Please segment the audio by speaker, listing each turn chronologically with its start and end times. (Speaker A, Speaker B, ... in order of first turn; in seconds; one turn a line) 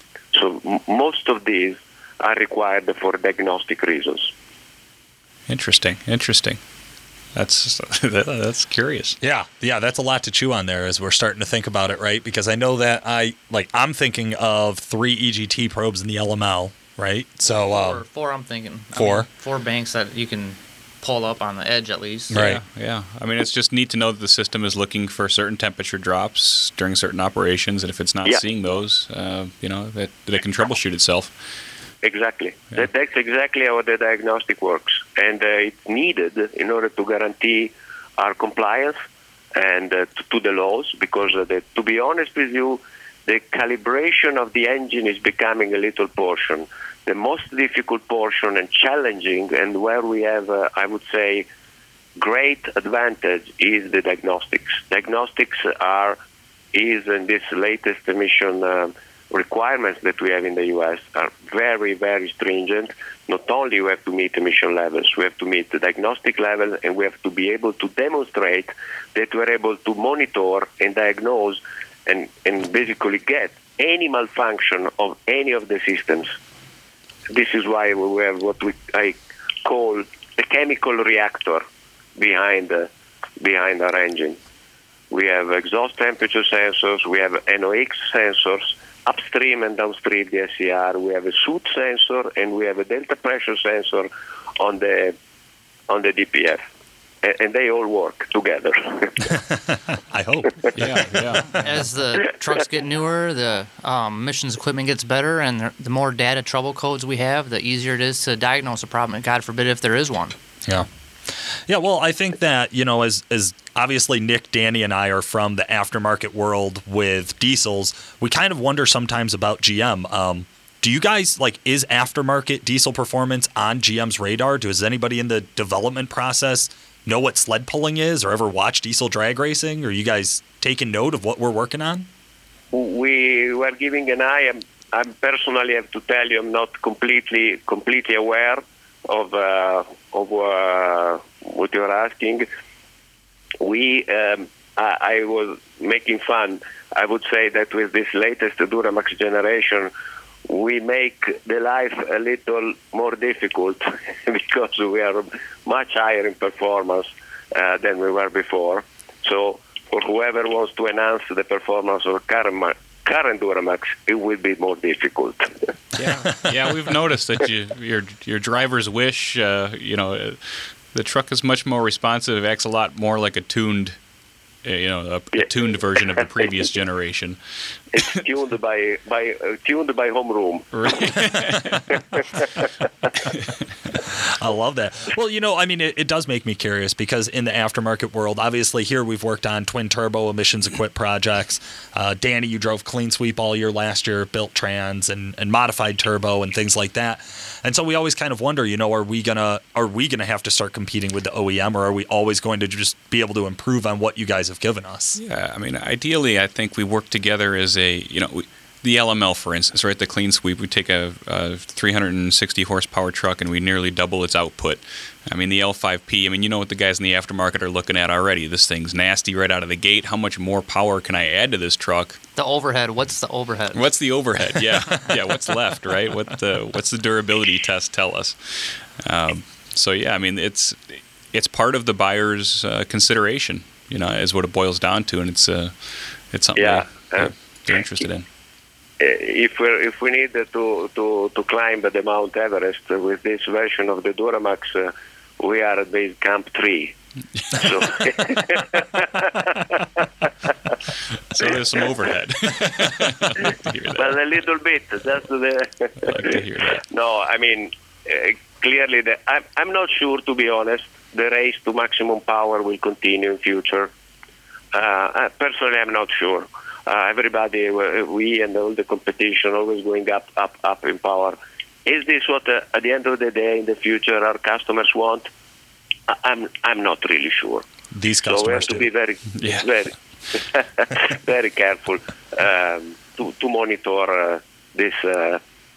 Speaker A: 0.3-4.3
Speaker B: 5.5-6.6
Speaker B: 7.3-9.2
Speaker C: 9.2-18.0
Speaker D: 17.5-22.4
Speaker C: 18.9-19.3
Speaker C: 22.3-22.6
Speaker B: 22.3-31.4
Speaker A: 32.0-39.0
Speaker A: 39.6-51.5
Speaker A: 52.2-56.2
Speaker A: 56.7-76.3
Speaker A: 77.3-81.6
Speaker A: 82.2-82.9
Speaker A: 83.4-84.4
Speaker A: 85.1-95.2
Speaker A: 95.9-96.6
Speaker A: 97.2-99.3
Speaker C: 99.3-101.7
Speaker B: 100.8-101.6
Speaker D: 101.5-110.4
Speaker C: 110.7-132.1
Speaker A: 132.7-142.5
Speaker A: 143.6-149.9
Speaker A: 150.5-165.7
Speaker B: 166.0-174.0
Speaker B: 174.6-178.2
Speaker A: 177.9-180.8
Speaker B: 180.7-182.0
Speaker A: 182.2-182.7
Speaker C: 184.0-205.2
Speaker B: 205.2-222.2
Speaker D: 222.4-224.0
Speaker B: 223.7-238.3
Speaker C: 224.5-225.4
Speaker A: 236.6-237.3
Speaker A: 239.0-246.9
Speaker A: 247.5-250.3
Speaker B: 251.3-254.2
Speaker A: 253.9-263.9
Speaker B: 256.0-256.8
Speaker A: 264.7-275.3
Speaker A: 276.1-277.7
Speaker C: 277.9-278.9
Speaker A: 278.3-285.4